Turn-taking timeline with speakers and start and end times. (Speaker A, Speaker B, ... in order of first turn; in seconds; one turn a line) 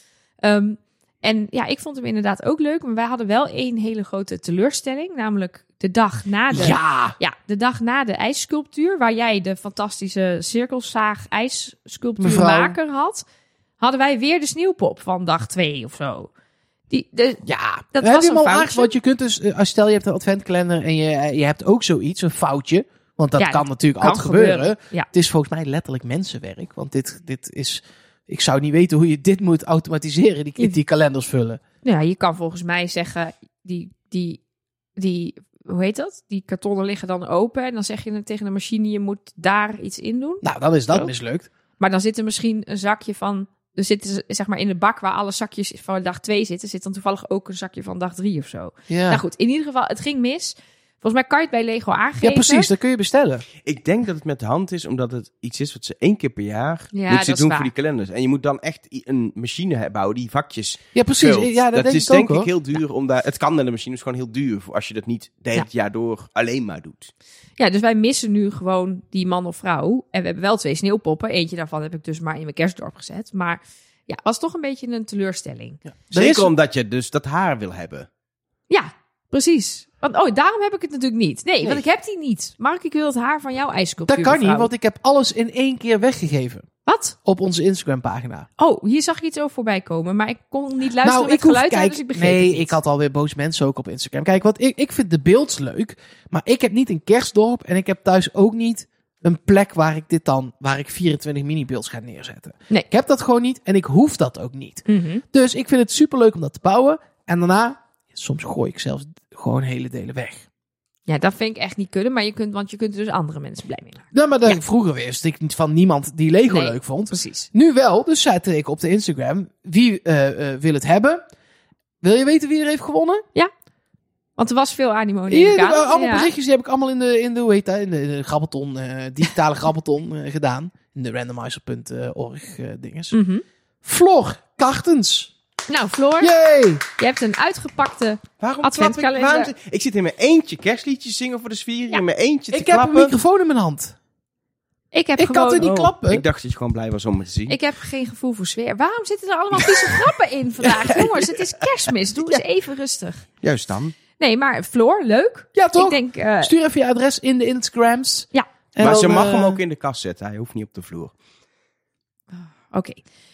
Speaker A: 0.4-13.2
Speaker B: 6.5-7.1
Speaker B: 12.2-12.8
Speaker A: 13.8-16.3
Speaker A: 16.9-18.9
Speaker B: 17.4-31.6
Speaker A: 23.4-25.1
Speaker A: 31.8-34.4
Speaker A: 35.0-41.1
Speaker B: 40.4-41.5
Speaker A: 41.8-52.7
Speaker B: 48.9-49.2
Speaker B: 52.2-53.4
Speaker C: 53.6-67.1
Speaker A: 56.9-57.7
Speaker B: 60.9-62.5
Speaker A: 67.6-75.8
Speaker B: 76.1-76.5
Speaker C: 76.1-78.1
Speaker A: 78.7-84.7
Speaker B: 84.1-86.7
Speaker A: 86.8-87.2
Speaker B: 87.2-88.5
Speaker A: 88.6-92.7
Speaker B: 91.0-110.4
Speaker A: 104.9-105.2
Speaker A: 111.1-114.6
Speaker B: 114.1-121.2
Speaker A: 116.5-117.5
Speaker B: 122.0-123.2
Speaker A: 124.4-126.3
Speaker B: 125.3-133.2
Speaker A: 133.1-133.4
Speaker B: 133.8-135.3
Speaker A: 135.7-136.3
Speaker B: 136.2-136.8
Speaker A: 137.0-139.5
Speaker C: 138.4-143.2
Speaker B: 142.5-143.9
Speaker A: 144.9-145.7
Speaker B: 145.2-146.2
Speaker C: 145.6-147.6
Speaker A: 147.5-153.2
Speaker C: 153.4-153.9
Speaker A: 154.2-156.5
Speaker B: 155.5-159.6
Speaker C: 158.8-161.1
Speaker A: 162.4-163.0